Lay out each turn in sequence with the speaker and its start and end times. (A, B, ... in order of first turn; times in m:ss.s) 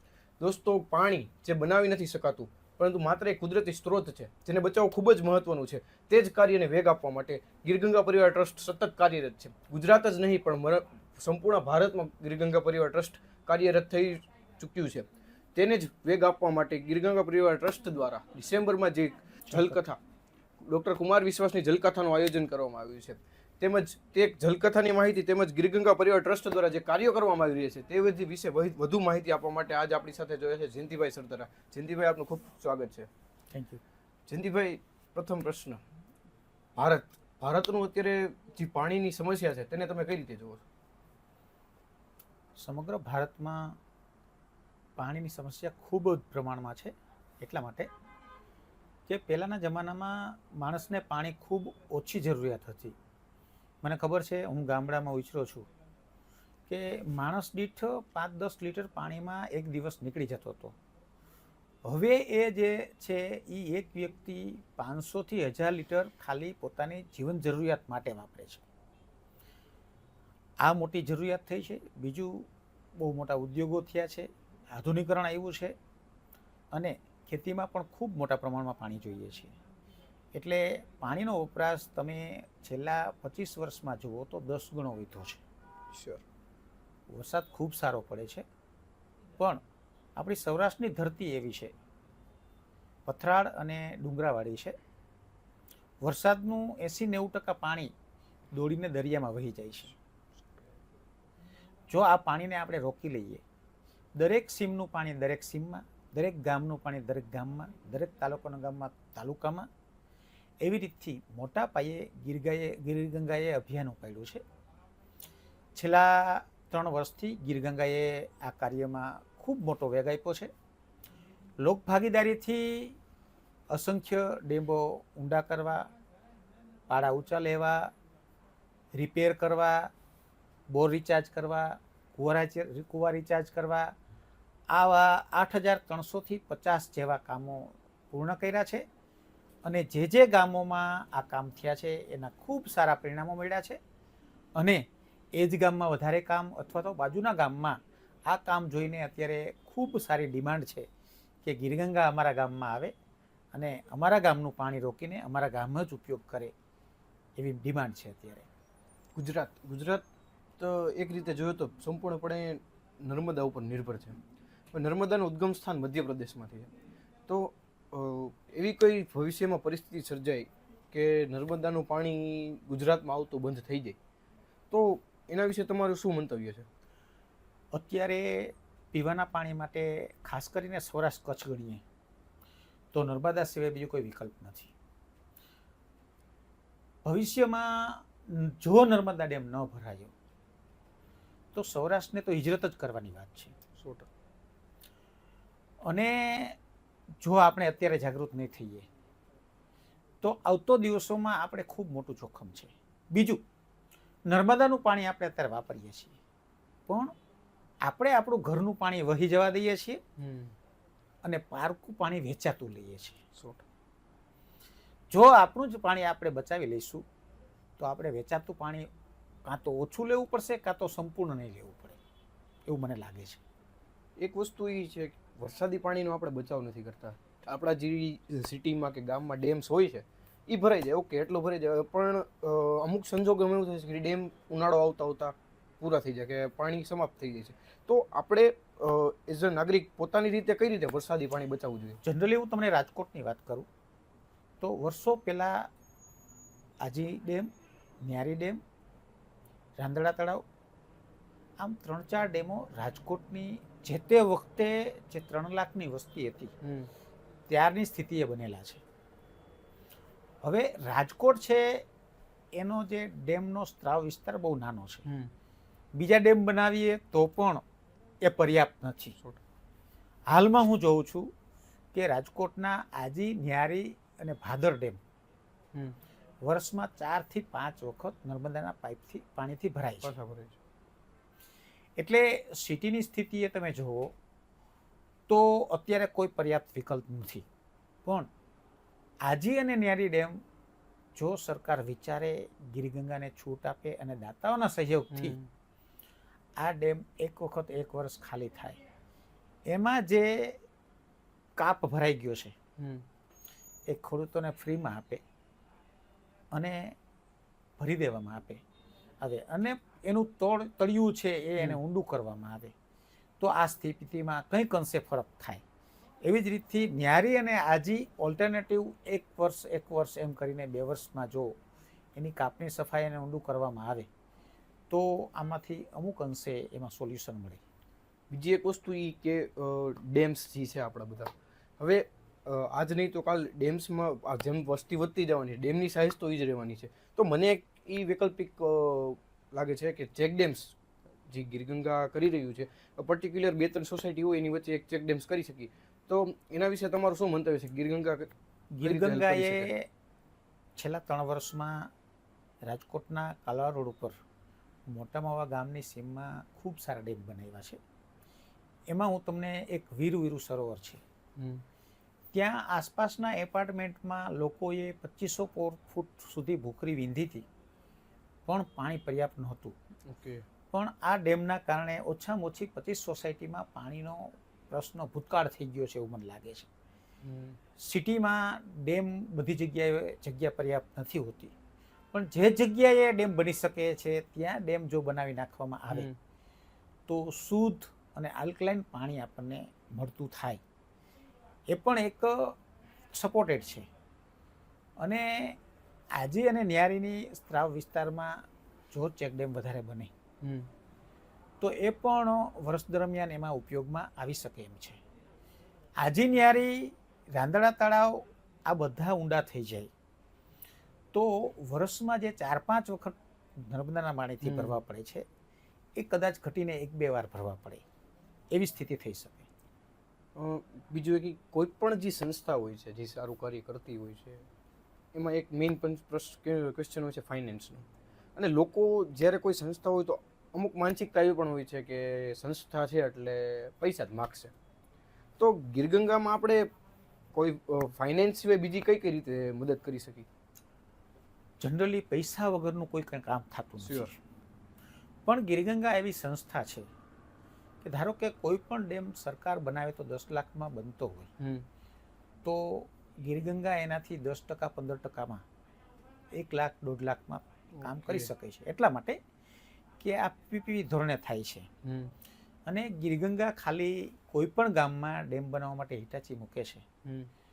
0:00.4-0:20.0 A
0:19.5-0:19.8 B
0:20.6-0:33.1 A
0:33.5-0:33.8 B
0:34.3-0:35.8 A
0:36.8-0:40.6 A
0:42.6-0:43.8 B
0:45.0-0:47.9 B
0:49.1-0:53.0 B
0:53.8-0:55.7 B
0:56.7-1:00.8 B
1:01.9-1:08.6 B
1:10.6-1:15.7 B
1:16.7-1:19.5 B
1:20.3-1:25.4 B
1:25.9-1:26.2 A
1:27.1-1:28.4 B
1:30.2-1:31.7 B
1:33.1-1:34.8 B
1:36.0-1:37.9 B
1:38.5-1:39.9 B
1:41.9-1:43.4 B
1:44.2-1:49.7 B
1:50.6-1:54.4 B
1:55.8-2:00.5 B
2:01.6-2:03.0 B
2:03.7-2:05.9 B
2:06.9-2:07.9 B
2:09.0-2:09.9 B
2:10.7-2:14.0 B
2:14.7-2:18.8 B
2:19.6-2:23.8 B
2:24.6-2:24.8 B
2:25.4-2:30.9 B
2:31.4-2:32.9 B
2:33.5-2:36.5 B
2:37.4-2:38.5 B
2:39.2-2:40.0 A
2:40.6-2:44.2 A
2:44.7-2:46.7 A
2:47.3-2:54.0 A
2:54.7-2:56.7 A
2:57.7-3:01.8 B
3:02.9-3:04.7 B
3:07.0-3:10.1 B
3:11.5-3:13.6 B
3:13.7-3:14.1 A
3:15.8-3:16.6 B
3:17.2-3:18.9 B
3:20.2-3:23.4 B
3:24.3-3:26.2 B
3:26.9-3:27.2 B
3:27.8-3:30.0 B
3:30.2-3:30.5 A
3:31.2-3:33.2 B
3:33.4-3:33.6 A
3:35.1-3:37.1 B
3:37.8-3:38.9 B
3:39.5-3:42.0 B
3:42.7-3:43.4 B
3:44.2-4:02.0 A
4:02.0-4:03.7 B
4:04.6-4:05.7 B
4:06.8-4:07.5 B
4:08.0-4:08.6 B
4:09.8-4:10.4 B
4:11.6-4:16.5 B
4:16.6-4:16.9 A
4:17.5-4:18.8 B
4:20.4-4:21.9 B
4:22.6-4:25.0 B
4:25.1-4:25.3 A
4:26.0-4:27.6 B
4:28.2-4:29.2 B
4:30.3-4:31.3 B
4:31.9-4:35.0 B
4:36.4-4:40.1 B
4:40.0-4:40.6 A
4:42.0-4:44.1 B
4:45.3-4:47.5 B
4:48.0-4:48.3 B
4:49.2-4:50.4 B
4:51.2-4:55.4 B
4:55.1-4:55.5 A
4:56.6-4:58.8 B
4:59.7-5:00.6 B
5:01.6-5:02.6 B
5:02.8-5:03.0 A
5:03.9-5:05.2 B
5:06.5-5:07.0 B
5:07.8-5:08.6 B
5:09.2-5:12.7 B
5:13.4-5:15.6 B
5:16.2-5:21.6 B
5:22.2-5:24.1 B
5:24.9-5:27.6 B
5:28.3-5:40.8 A
5:41.3-5:48.3 A
5:48.7-5:49.9 B
5:48.8-5:49.7 A
5:50.8-5:51.9 B
5:52.7-5:54.2 B
5:54.9-5:57.8 B
5:58.9-6:01.0 B
6:01.4-6:01.6 A
6:02.3-6:07.5 B
6:08.5-6:09.8 B
6:10.1-6:10.4 A
6:10.7-6:16.7 B
6:17.2-6:17.6 A
6:17.8-6:21.5 B
6:22.1-6:26.1 B
6:25.9-6:26.2 A
6:27.1-6:30.6 B
6:31.7-6:32.6 B
6:33.1-6:33.9 B
6:35.0-6:35.6 B
6:36.1-6:40.1 B
6:40.4-6:40.7 A
6:41.6-6:45.0 B
6:46.0-6:49.9 B
6:51.1-6:55.2 B
6:54.4-6:54.8 A
6:56.0-6:57.8 B
6:58.5-6:59.5 B
7:00.4-7:04.5 A
7:05.1-7:14.5 A
7:15.4-7:16.7 A
7:17.3-7:20.3 A
7:21.6-7:24.2 B
7:23.8-7:24.1 A
7:25.3-7:26.9 B
7:27.8-7:31.3 B
7:31.4-7:31.6 A
7:32.4-7:35.4 B
7:36.3-7:39.2 B
7:37.8-7:38.3 A
7:40.0-7:41.7 B
7:41.8-7:42.1 A
7:42.7-7:46.8 B
7:47.0-7:47.3 A